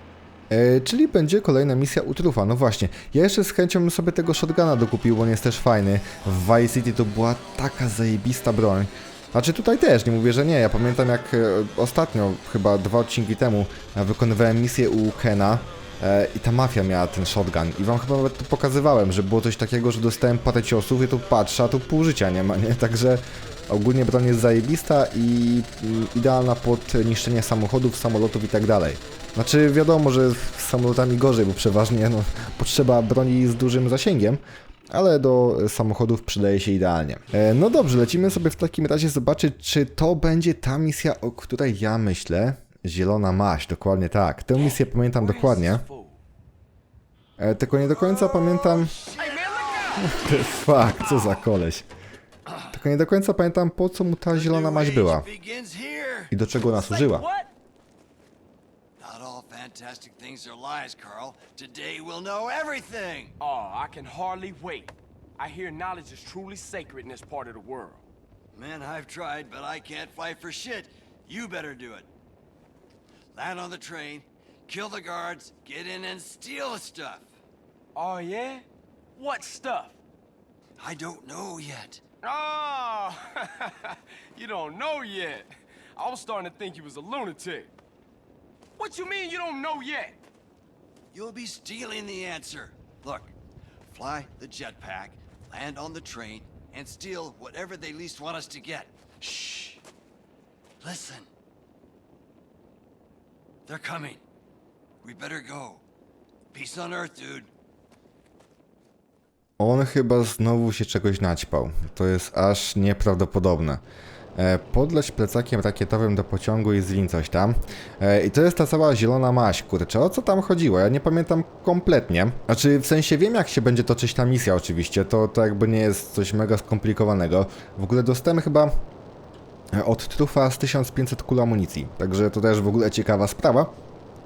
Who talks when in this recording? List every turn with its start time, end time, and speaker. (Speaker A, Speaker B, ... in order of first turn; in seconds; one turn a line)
Speaker A: 0.5-45.8
Speaker B: 44.6-46.2
Speaker A: 47.4-49.0
Speaker C: 48.0-50.4
Speaker B: 49.2-50.4
Speaker A: 50.0-51.9
Speaker A: 52.7-55.2
Speaker C: 54.3-56.3
Speaker A: 56.3-57.2
Speaker B: 56.7-57.5
Speaker C: 59.0-63.3
Speaker B: 63.4-68.1
Speaker C: 68.5-72.1
Speaker C: 73.3-77.3
Speaker B: 77.9-78.6
Speaker B: 79.2-80.0
Speaker C: 80.8-82.0
Speaker B: 82.2-87.7
Speaker B: 88.8-90.2
Speaker C: 91.1-99.8
Speaker C: 100.8-101.3
Speaker C: 103.7-104.2
Speaker C: 105.0-105.8
Speaker C: 106.5-107.5
Speaker A: 109.6-113.8
Speaker A: 114.3-128.7
Speaker A: 129.7-133.7